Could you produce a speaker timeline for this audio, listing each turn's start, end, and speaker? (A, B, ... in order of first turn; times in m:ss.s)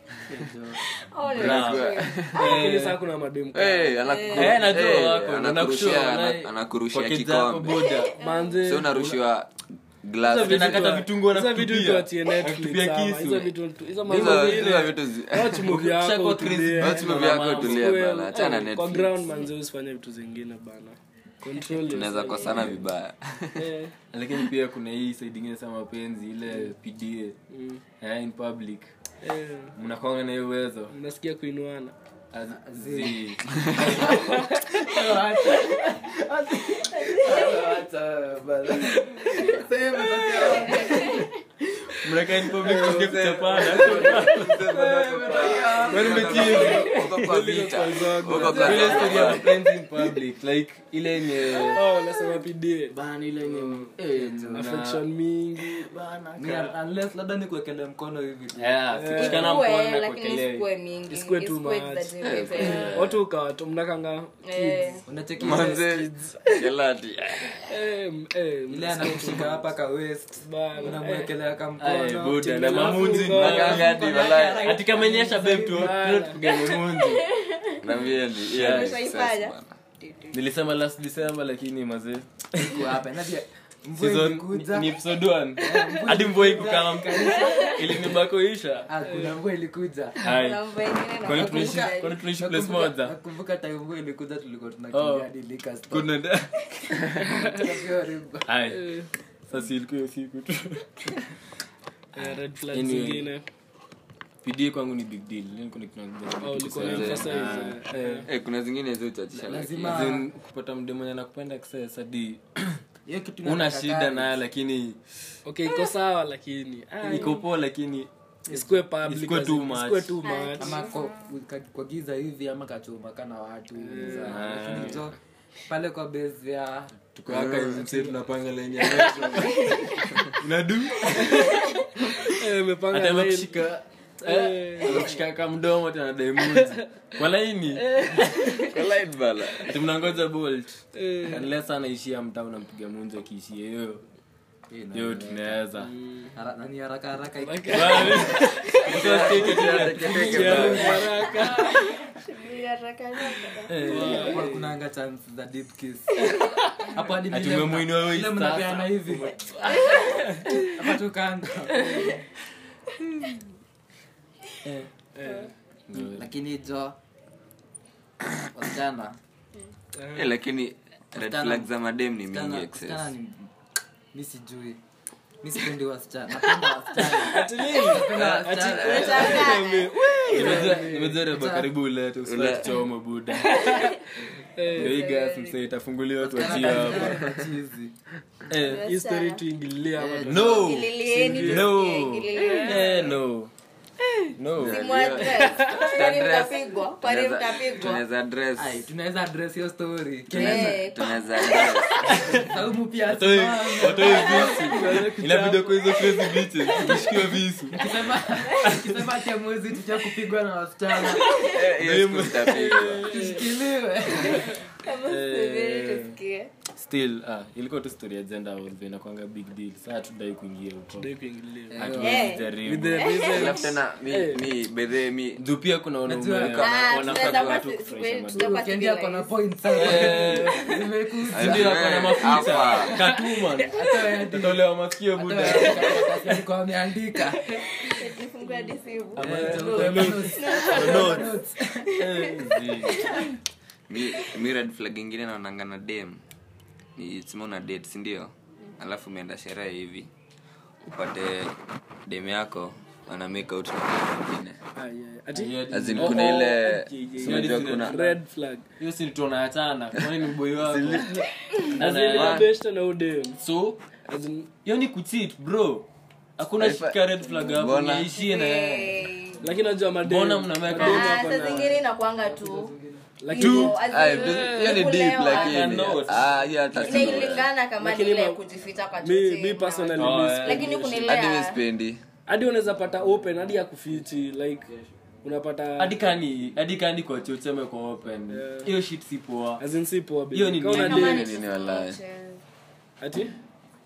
0:00.3-0:00.8 A
0:01.0-0:02.3 B
0:01.2-0:02.5 C
0:01.3-0:03.0 D
0:02.3-0:04.0 E
0:03.5-0:07.9 C
0:04.0-0:04.7 B
0:04.3-0:08.1 D
0:07.9-0:08.6 B
0:08.2-0:09.0 E
0:08.6-0:09.5 C
0:10.0-0:11.0 C
0:10.2-0:22.7 E
0:10.4-0:13.5 D
0:14.1-0:14.9 D
0:14.1-0:15.7 C
0:15.6-0:17.9 D
0:16.8-0:19.3 C
0:21.8-0:23.6 C
0:22.6-0:22.8 D
0:23.5-0:23.9 E
0:24.1-0:27.4 D
0:27.5-0:27.8 E
0:28.0-0:28.9 D
0:29.2-0:29.7 E
0:29.8-0:30.9 D
0:30.9-0:31.9 E
0:32.3-0:34.2 D
0:32.5-0:41.3 A
0:34.2-0:34.8 E
0:39.1-0:39.4 E
0:40.2-0:40.9 E
0:40.5-0:41.3 B
0:42.0-0:44.6 D
0:42.6-0:43.0 E
0:42.7-0:49.5 C
0:43.6-0:46.9 A
0:45.2-0:49.4 E
0:45.9-0:46.8 D
0:48.4-0:49.5 A
0:48.4-0:51.8 D
0:51.6-0:52.9 E
0:52.9-0:55.0 D
0:53.5-0:53.9 E
0:54.1-0:54.7 A
0:54.5-0:55.9 E
0:55.9-0:56.7 D
0:56.4-0:59.0 A
0:58.6-1:00.6 D
0:58.9-0:59.5 E
0:59.1-1:03.0 B
1:01.1-1:06.7 E
1:02.2-1:03.0 C
1:02.7-1:03.0 D
1:04.4-1:05.0 B
1:05.1-1:05.8 A
1:05.4-1:07.6 C
1:07.4-1:09.6 E
1:08.7-1:16.0 A
1:10.4-1:11.3 E
1:11.8-1:14.0 D
1:12.6-1:13.9 E
1:13.3-1:14.7 C
1:14.6-1:17.2 D
1:15.4-1:16.4 E
1:16.5-1:17.8 B
1:17.8-1:19.7 C
1:18.5-1:18.9 D
1:18.5-1:20.4 B
1:20.3-1:22.7 D
1:22.6-1:25.0 A
1:24.0-1:28.9 D
1:25.6-1:28.1 A
1:27.5-1:27.8 B
1:28.9-1:30.2 A
1:30.2-1:32.2 B
1:30.2-1:30.6 D
1:31.2-1:33.1 D
1:31.3-1:36.2 A
1:34.9-1:35.3 D
1:35.9-1:37.3 D
1:37.2-1:38.5 A
1:38.5-1:41.2 D
1:38.7-1:39.1 E
1:42.1-1:43.4 E
1:42.2-1:43.2 D
1:44.4-1:48.2 D
1:46.4-1:48.3 E
1:46.8-1:47.5 C
1:48.2-1:50.1 C
1:49.3-1:50.2 A
1:49.8-1:52.8 D
1:53.0-1:54.3 A
1:53.4-1:55.0 D
1:55.4-1:57.4 E
1:57.0-1:58.1 D
1:58.5-2:00.8 E
1:59.0-2:00.2 D
2:00.2-2:00.9 B
2:00.6-2:05.1 A
2:03.8-2:04.4 E
2:04.3-2:05.0 D
2:05.7-2:06.9 A
2:07.1-2:11.4 D
2:07.3-2:07.8 C
2:08.9-2:09.6 A
2:11.2-2:11.6 E
2:12.2-2:13.6 E
2:12.9-2:17.9 D
2:14.2-2:15.1 E
2:16.4-2:16.8 E
2:17.9-2:18.7 E
2:18.6-2:19.7 C
2:19.6-2:24.0 D
2:20.9-2:21.4 E
2:24.7-2:25.6 A
2:24.9-2:25.9 D
2:25.8-2:26.3 E
2:26.3-2:28.5 A
2:27.4-2:29.0 E
2:27.7-2:31.0 D
2:28.8-2:31.1 C
2:29.1-2:31.4 A
2:30.3-2:32.0 E
2:31.4-2:34.4 B
2:33.7-2:34.3 D
2:33.8-2:39.4 A
2:33.8-2:34.7 E
2:37.3-2:39.5 D
2:39.6-2:40.6 E
2:39.8-2:40.2 B
2:40.6-2:42.2 A
2:41.8-2:42.2 B
2:45.2-2:45.5 E
2:45.9-2:46.3 D
2:46.0-2:46.9 A
2:48.5-2:49.2 A
2:49.9-2:50.3 E
2:50.1-2:53.1 C
2:51.2-2:51.7 A
2:52.3-2:53.5 A
2:54.1-2:54.8 A
2:55.4-2:59.4 A
2:56.9-3:01.2 E
2:58.1-2:59.4 C
2:58.7-2:59.9 B
3:00.3-3:03.7 D
3:00.4-3:01.7 A
3:02.2-3:02.7 C
3:03.5-3:05.0 E
3:04.7-3:05.6 B
3:04.7-3:07.2 D
3:06.3-3:07.3 C
3:06.3-3:07.9 A
3:08.5-3:08.9 D
3:08.6-3:09.4 B
3:08.8-3:11.7 E
3:10.0-3:10.5 A
3:10.2-3:13.5 D
3:10.3-3:13.1 B
3:12.3-3:13.1 E
3:14.4-3:14.9 D
3:14.6-3:18.9 C
3:14.6-3:18.0 B
3:15.4-3:15.9 E
3:18.6-3:20.8 A
3:20.3-3:21.7 B
3:20.3-3:22.2 C
3:22.0-3:22.5 D
3:22.2-3:25.2 A
3:23.0-3:27.8 D
3:24.1-3:26.6 E
3:24.2-3:24.5 B
3:27.7-3:31.4 A
3:28.6-3:29.0 D
3:31.1-3:31.6 B
3:31.4-3:33.2 C
3:31.8-3:32.9 D
3:32.4-3:33.6 E
3:33.0-3:34.6 A
3:34.2-3:36.5 B
3:35.0-3:36.2 D
3:36.7-3:41.1 D
3:41.0-3:41.8 E
3:41.7-3:42.2 A
3:41.7-3:43.3 D
3:41.9-3:43.6 B
3:42.6-3:44.4 E
3:43.3-3:45.4 C
3:45.4-3:48.5 D
3:46.0-3:46.7 A
3:46.4-3:47.6 C
3:46.6-3:49.3 B
3:48.3-3:51.9 A
3:49.7-3:50.7 D
3:49.9-3:50.7 B
3:51.3-3:53.0 C
3:51.3-3:56.1 D
3:53.6-3:57.6 A
3:57.8-3:59.7 B
3:59.1-4:01.3 D
3:59.2-4:02.0 A
3:59.3-4:01.0 E
4:00.3-4:01.3 B
4:01.8-4:03.3 B
4:01.9-4:03.1 D
4:03.9-4:06.2 C
4:07.0-4:10.1 C
4:10.8-4:11.6 C
4:12.1-4:14.6 C
4:14.8-4:18.6 E
4:15.3-4:16.4 D
4:15.7-4:18.0 C
4:17.2-4:18.1 D
4:18.8-4:21.1 D
4:20.6-4:21.2 C
4:21.7-4:23.4 E
4:21.7-4:22.5 D
4:21.9-4:22.4 C
4:23.4-4:23.8 D
4:24.1-4:24.5 E
4:24.6-4:25.9 D
4:26.4-4:29.0 D
4:26.6-4:28.1 C
4:28.1-4:29.4 B
4:29.4-4:31.7 E
4:30.0-4:31.5 D
4:30.7-4:32.7 B
4:32.2-4:33.1 A
4:33.2-4:34.8 E
4:33.3-4:36.0 B
4:33.4-4:33.8 D
4:33.8-4:37.5 C
4:35.2-4:37.2 D
4:36.8-4:41.6 B
4:37.8-4:38.4 E
4:39.0-4:41.1 E
4:40.0-4:41.0 D
4:41.0-4:42.0 C
4:42.3-4:44.7 E
4:45.2-4:46.0 E
4:45.8-4:49.6 D
4:48.3-4:48.7 E
4:49.6-4:51.4 E
4:50.3-4:51.2 D
4:50.7-4:52.4 B
4:50.8-4:52.0 C
4:53.0-4:53.3 E